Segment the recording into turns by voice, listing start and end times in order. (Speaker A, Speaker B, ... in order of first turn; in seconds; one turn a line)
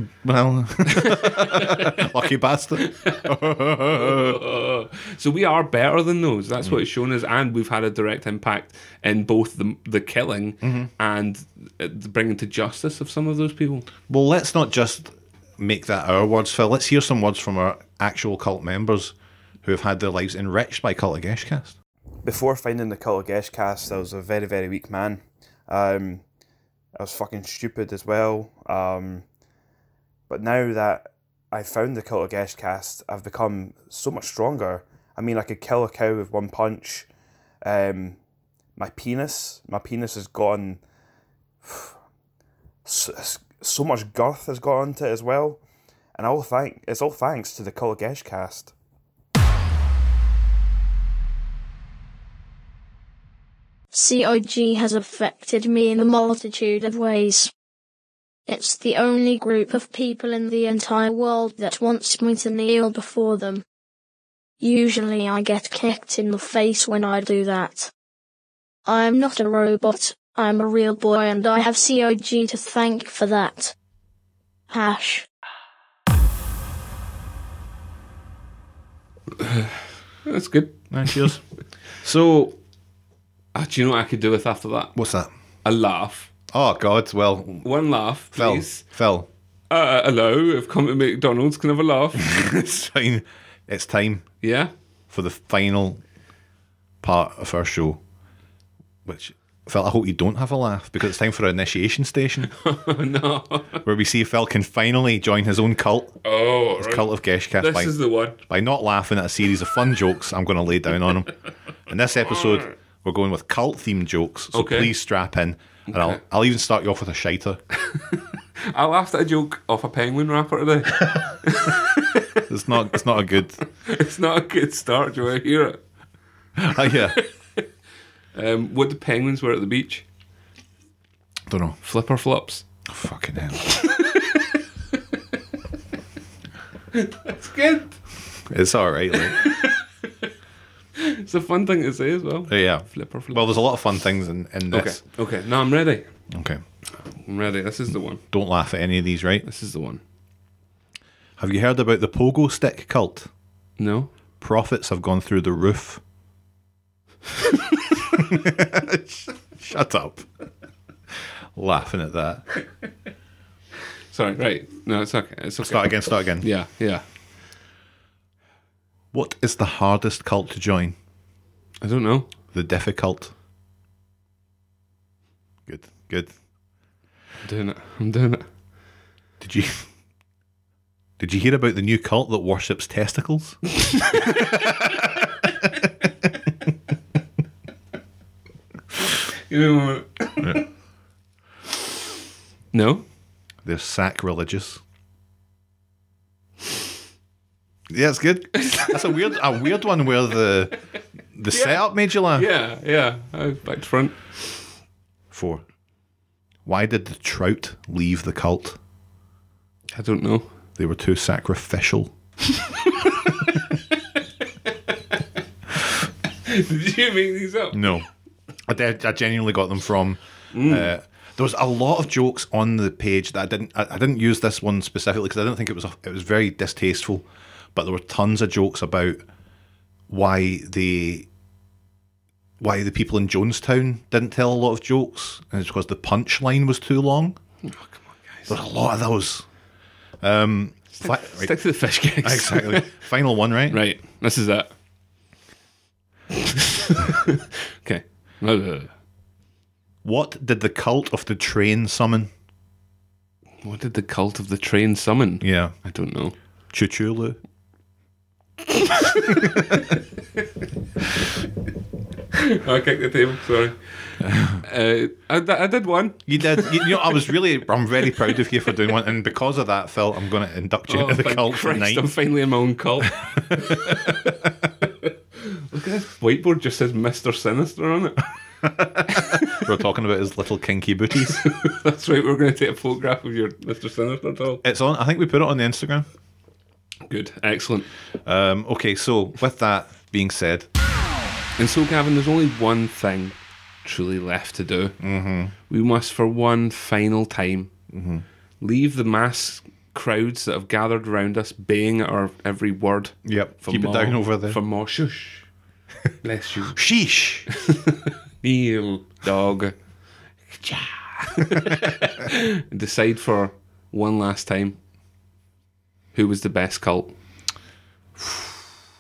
Speaker A: 0.2-4.4
Speaker B: 0.9-2.0
Speaker B: 2.9-3.3
Speaker B: 3.9-13.9
Speaker A: 10.6-10.9
Speaker A: 14.1-21.8
Speaker C: 22.2-26.2
Speaker C: 26.9-29.2
Speaker C: 30.3-37.1
Speaker C: 37.6-38.2
Speaker C: 38.8-40.8
Speaker C: 41.6-42.0
Speaker C: 42.9-45.6
Speaker C: 46.1-48.7
Speaker D: 53.9-57.5
Speaker D: 58.5-63.6
Speaker D: 64.6-67.9
Speaker D: 68.9-73.8
Speaker D: 74.7-75.3
Speaker B: 79.4-81.1
Speaker A: 80.9-81.4
Speaker A: 82.0-82.6
Speaker B: 83.5-84.9
Speaker A: 85.0-85.3
Speaker B: 85.6-86.3
Speaker A: 86.5-87.7
Speaker B: 87.6-88.8
Speaker A: 88.3-89.3
Speaker B: 89.7-92.4
Speaker A: 92.2-94.3
Speaker B: 94.4-94.7
Speaker A: 95.1-96.0
Speaker A: 97.0-98.0
Speaker A: 99.1-102.5
Speaker B: 102.5-103.8
Speaker A: 103.8-106.2
Speaker B: 106.2-108.4
Speaker A: 106.8-111.3
Speaker A: 111.9-117.6
Speaker B: 114.5-114.9
Speaker B: 115.9-116.2
Speaker B: 117.9-122.9
Speaker A: 122.5-123.6
Speaker B: 123.8-125.8
Speaker A: 126.6-127.2
Speaker B: 128.3-130.1
Speaker A: 131.5-131.8
Speaker B: 131.8-132.6
Speaker A: 132.9-133.9
Speaker B: 133.7-134.6
Speaker B: 136.9-138.0
Speaker A: 138.4-139.4
Speaker B: 139.4-140.3
Speaker B: 140.9-143.5
Speaker A: 142.5-145.0
Speaker B: 144.7-146.1
Speaker A: 146.3-146.6
Speaker B: 147.2-148.2
Speaker A: 148.3-149.4
Speaker B: 149.4-150.0
Speaker A: 151.4-153.3
Speaker B: 153.8-154.1
Speaker A: 154.4-156.0
Speaker A: 158.1-160.3
Speaker A: 161.6-162.4
Speaker B: 164.1-167.0
Speaker A: 165.6-166.5
Speaker A: 169.1-170.9
Speaker B: 171.8-172.3
Speaker A: 172.5-173.3
Speaker A: 175.7-176.3
Speaker B: 177.4-178.4
Speaker A: 179.4-179.9
Speaker A: 181.2-185.9
Speaker B: 189.5-190.7
Speaker B: 192.7-193.1
Speaker A: 193.6-194.8
Speaker A: 197.9-200.8
Speaker B: 198.6-198.9
Speaker A: 201.3-202.5
Speaker B: 201.5-204.6
Speaker A: 205.3-205.6
Speaker A: 206.7-208.8
Speaker B: 209.9-210.5
Speaker A: 210.8-212.1
Speaker B: 212.8-213.4
Speaker B: 216.4-218.0
Speaker A: 217.7-218.1
Speaker A: 218.7-229.2
Speaker B: 220.5-220.9
Speaker A: 230.1-231.3
Speaker A: 232.6-237.4
Speaker B: 237.6-238.5
Speaker A: 238.5-239.4
Speaker A: 240.2-241.6
Speaker B: 240.9-242.9
Speaker A: 242.1-243.8
Speaker B: 243.7-244.7
Speaker B: 246.3-248.9
Speaker A: 250.0-252.3
Speaker B: 253.6-256.4
Speaker A: 255.4-255.7
Speaker A: 256.7-257.4
Speaker B: 258.7-259.8
Speaker B: 262.3-267.2
Speaker A: 264.2-264.6
Speaker A: 266.3-272.1
Speaker B: 270.9-278.3
Speaker A: 273.4-274.3
Speaker A: 278.6-281.4
Speaker B: 279.1-279.6
Speaker B: 281.4-284.6
Speaker A: 284.6-286.1
Speaker B: 287.1-287.9
Speaker A: 288.2-290.7
Speaker B: 291.6-295.0
Speaker A: 295.0-295.5
Speaker B: 295.7-297.7
Speaker A: 297.9-298.2
Speaker B: 298.6-305.4
Speaker A: 303.2-304.6
Speaker B: 306.2-306.8
Speaker A: 306.7-307.5
Speaker B: 307.5-309.8
Speaker B: 310.5-314.8
Speaker B: 316.1-317.1
Speaker A: 318.2-318.6